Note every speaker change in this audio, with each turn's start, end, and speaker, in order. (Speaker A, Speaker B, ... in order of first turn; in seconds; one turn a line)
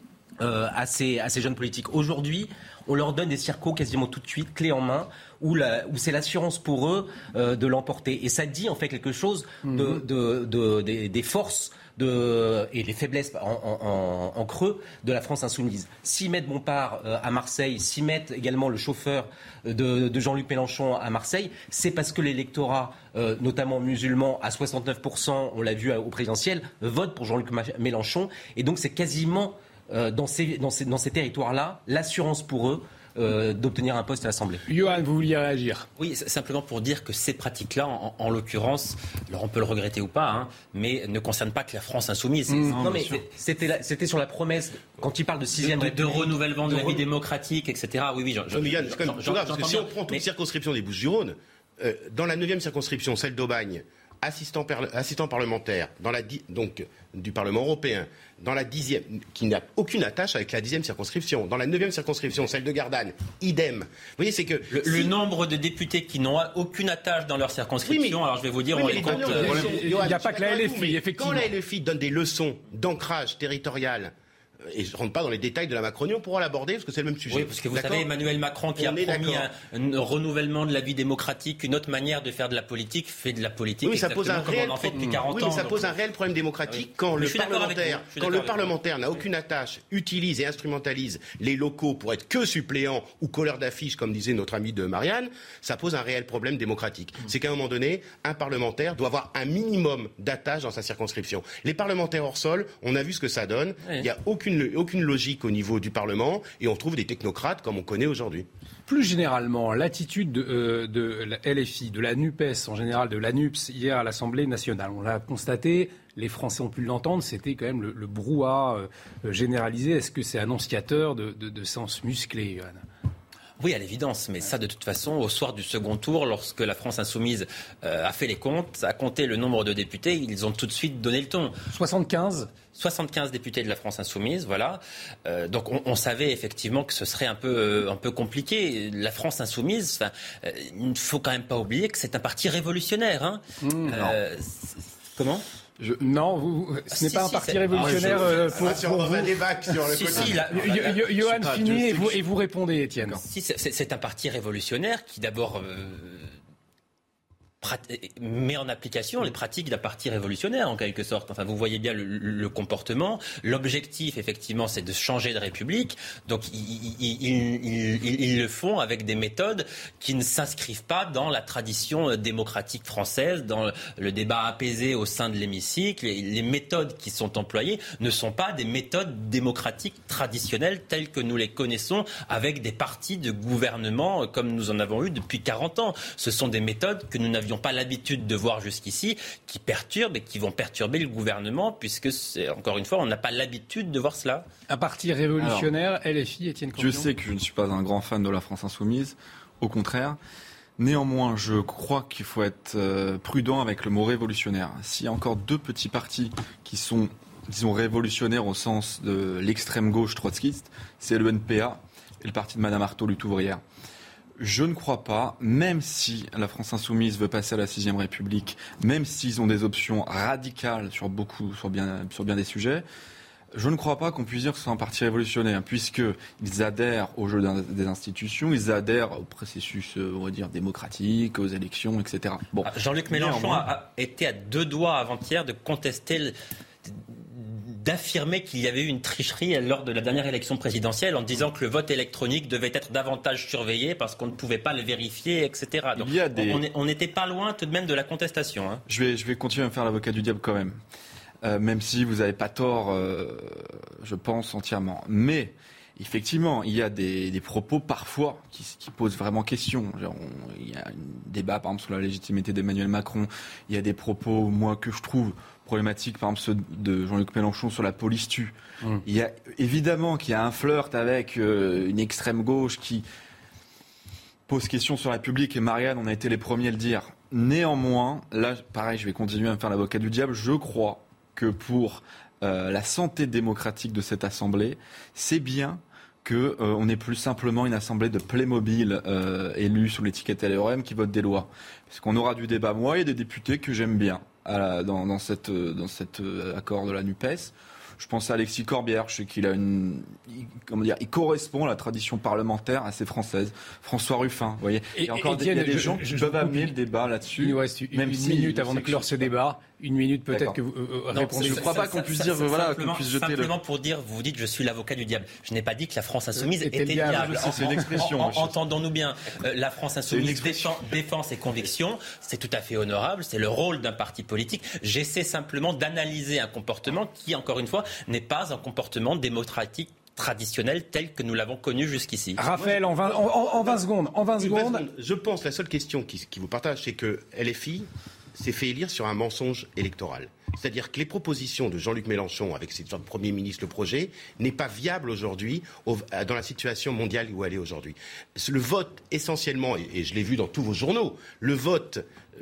Speaker A: 0.4-34.6
Speaker B: 9.6-10.0
Speaker B: 34.7-35.9
Speaker C: 36.0-42.8
Speaker B: 42.5-42.8
Speaker D: 42.7-43.2
Speaker A: 42.8-47.0
Speaker C: 45.5-50.2
Speaker E: 48.5-65.1
Speaker C: 64.7-69.8
Speaker E: 67.8-68.2
Speaker E: 68.7-74.1
Speaker B: 69.2-71.5
Speaker E: 74.7-78.1
Speaker C: 77.3-85.9
Speaker E: 78.8-79.5
Speaker E: 83.8-108.5
Speaker C: 86.7-88.8
Speaker B: 108.9-122.8
Speaker C: 123.6-131.6
Speaker B: 131.7-132.5
Speaker C: 132.7-145.4
Speaker B: 143.6-144.0
Speaker B: 146.0-149.7
Speaker C: 146.9-148.5
Speaker D: 147.7-148.3
Speaker E: 148.5-150.4
Speaker C: 149.8-151.6
Speaker B: 150.3-153.2
Speaker D: 151.2-152.2
Speaker C: 153.2-156.3
Speaker C: 157.6-194.4
Speaker B: 194.7-197.1
Speaker D: 195.4-195.7
Speaker D: 196.8-200.2
Speaker D: 200.8-213.6
Speaker D: 214.4-222.8
Speaker D: 223.5-233.7
Speaker C: 232.6-236.3
Speaker C: 236.8-248.8
Speaker D: 245.9-246.6
Speaker D: 248.9-250.8
Speaker D: 251.4-273.0
Speaker D: 274.5-309.2
Speaker B: 304.9-306.7
Speaker B: 307.4-311.6
Speaker D: 310.3-310.6
Speaker C: 311.1-332.4
Speaker D: 311.2-313.5
Speaker B: 316.4-317.8
Speaker D: 317.0-318.6
Speaker D: 320.1-320.9
Speaker B: 332.4-334.8
Speaker E: 332.5-333.8
Speaker E: 334.4-352.0